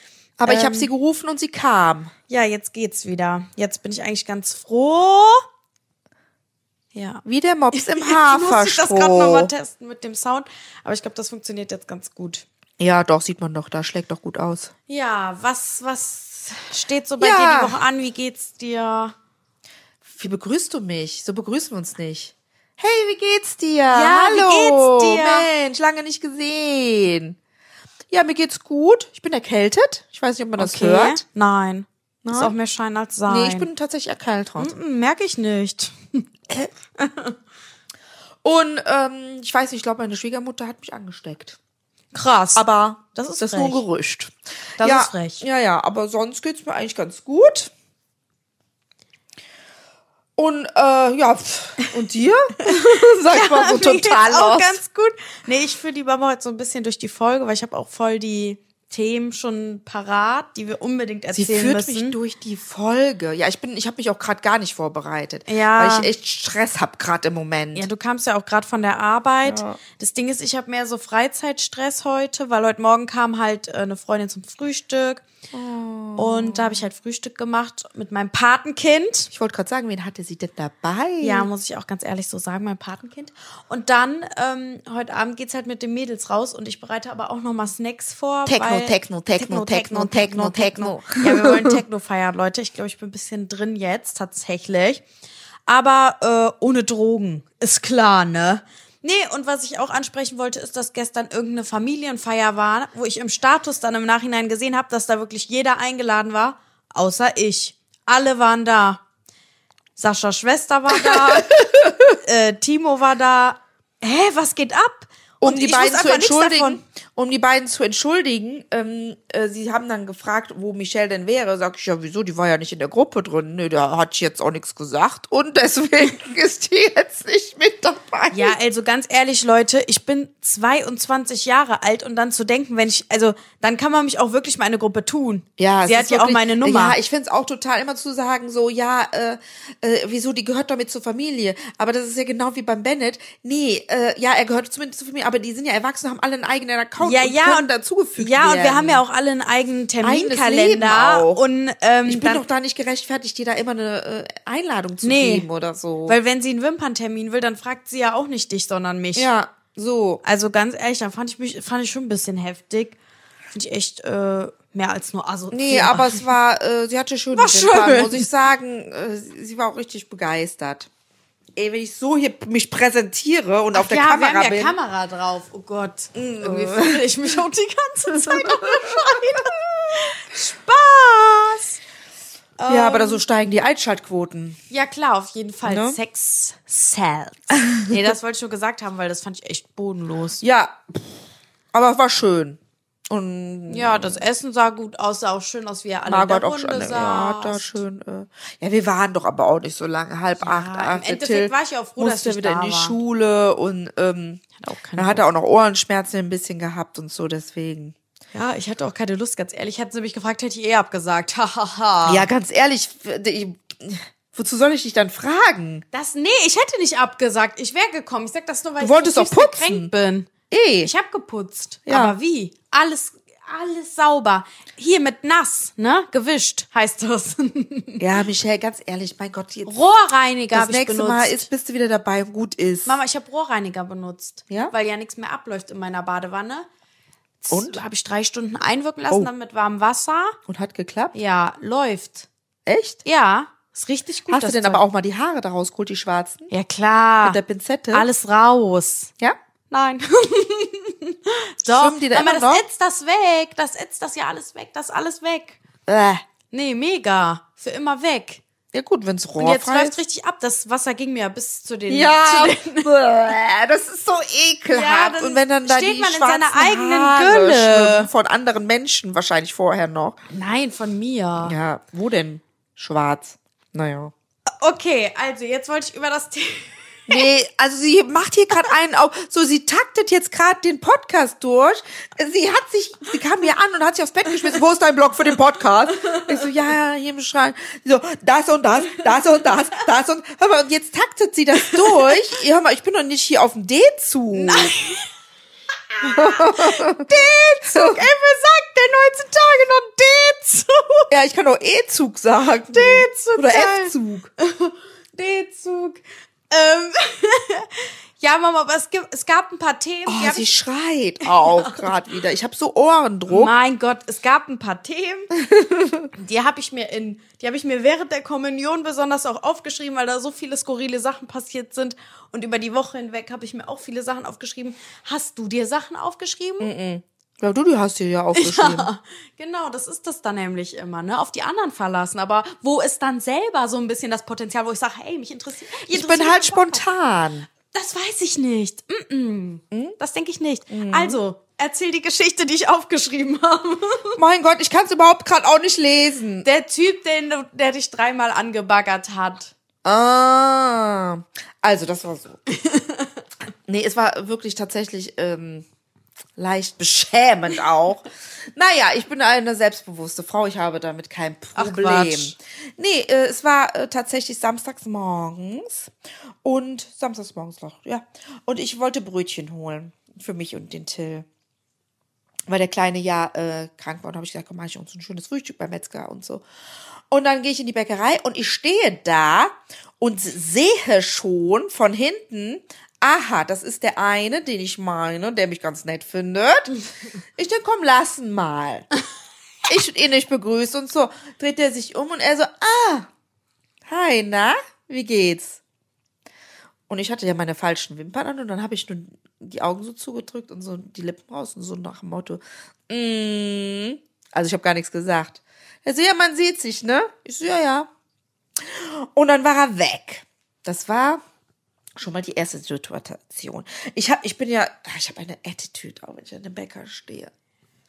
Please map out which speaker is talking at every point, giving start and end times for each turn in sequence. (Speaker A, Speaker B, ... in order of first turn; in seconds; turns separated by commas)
Speaker A: 0.4-2.1, Speaker B: 0.5-0.9, Speaker B: 2.3-5.4, Speaker B: 6.9-7.2, Speaker A: 7.2-9.5, Speaker B: 7.7-12.4, Speaker A: 12.8-14.7, Speaker B: 14.9-19.1, Speaker A: 17.2-17.8, Speaker A: 20.0-27.4, Speaker B: 23.9-25.5, Speaker A: 28.1-31.2, Speaker B: 30.6-33.7, Speaker A: 32.2-32.5, Speaker A: 33.3-34.7, Speaker B: 34.6-37.4, Speaker A: 38.4-41.6, Speaker B: 42.1-43.8, Speaker A: 42.5-47.7, Speaker B: 44.8-45.4, Speaker A: 50.4-54.8, Speaker B: 53.3-62.2, Speaker A: 61.3-67.9, Speaker B: 65.5-66.1, Speaker B: 67.8-75.2, Speaker A: 69.4-69.8, Speaker A: 75.5-76.8, Speaker B: 76.2-79.3, Speaker A: 79.3-81.5, Speaker B: 81.2-95.0, Speaker A: 88.5-91.7, Speaker B: 95.7-109.0, Speaker B: 110.0-116.8, Speaker A: 111.1-112.0, Speaker A: 115.4-128.6, Speaker B: 128.3-137.0, Speaker A: 135.6-149.0, Speaker B: 147.0-152.4, Speaker A: 150.0-151.4, Speaker A: 152.1-156.2, Speaker B: 155.0-155.5, Speaker B: 156.1-159.3, Speaker A: 159.2-160.2, Speaker B: 160.2-163.0, Speaker B: 163.5-166.3, Speaker A: 165.5-170.9, Speaker B: 167.3-168.3, Speaker A: 171.6-174.8, Speaker B: 173.7-181.8, Speaker A: 176.2-177.1, Speaker A: 178.2-179.4, Speaker B: 182.6-183.2, Speaker A: 182.7-184.6, Speaker B: 184.7-190.4, Speaker A: 185.7-186.0, Speaker A: 190.4-191.1, Speaker A: 191.7-192.6, Speaker A: 193.1-194.2, Speaker B: 193.7-197.8, Speaker A: 196.1-204.4, Speaker B: 200.4-203.0, Speaker B: 204.6-205.2, Speaker A: 205.0-208.0, Speaker B: 208.3-212.3, Speaker A: 212.1-215.8, Speaker B: 215.9-228.0, Speaker A: 218.8-219.9, Speaker A: 220.5-220.9, Speaker A: 221.9-222.2, Speaker A: 228.0-229.7, Speaker B: 229.7-231.5, Speaker A: 230.5-233.0, Speaker B: 232.8-236.7, Speaker B: 237.4-240.4, Speaker A: 237.5-237.8, Speaker A: 240.5-241.2, Speaker B: 241.1-242.3, Speaker A: 242.7-243.0, Speaker B: 243.1-244.8, Speaker A: 244.3-246.5, Speaker B: 246.5-247.4, Speaker A: 247.2-248.1, Speaker B: 247.9-249.1, Speaker B: 249.7-255.6, Speaker A: 251.7-252.6, Speaker A: 255.9-256.2, Speaker B: 256.5-258.4, Speaker A: 258.7-260.0, Speaker B: 259.4-262.9, Speaker A: 261.9-270.2, Speaker B: 264.7-268.1, Speaker B: 270.3-271.6, Speaker A: 271.4-274.1, Speaker B: 274.6-277.2, Speaker A: 277.1-294.7, Speaker B: 286.0-286.5, Speaker B: 291.7-292.1, Speaker B: 294.3-295.1, Speaker B: 296.0-301.1, Speaker A: 296.0-297.1, Speaker A: 297.7-298.1, Speaker A: 301.1-304.3, Speaker B: 302.7-310.5, Speaker A: 310.1-313.5, Speaker B: 311.3-311.9, Speaker B: 313.3-315.3, Speaker A: 315.4-316.1, Speaker B: 316.1-326.7, Speaker A: 326.6-328.9, Speaker B: 328.4-336.9, Speaker A: 335.9-337.5, Speaker B: 337.7-344.2, Speaker A: 340.7-341.2, Speaker A: 344.2-346.5, Speaker B: 346.4-349.5, Speaker A: 349.8-352.4, Speaker B: 352.5-353.1, Speaker A: 353.7-355.7, Speaker A: 356.4-365.9, Speaker B: 361.6-362.3, Speaker A: 366.4-371.3, Speaker A: 372.5-376.4, Speaker A: 377.1-386.7, Speaker A: 387.4-388.9, Speaker A: 389.7-393.1, Speaker A: 393.9-395.6, Speaker A: 396.9-407.9, Speaker A: 408.6-411.2, Speaker A: 412.0-417.3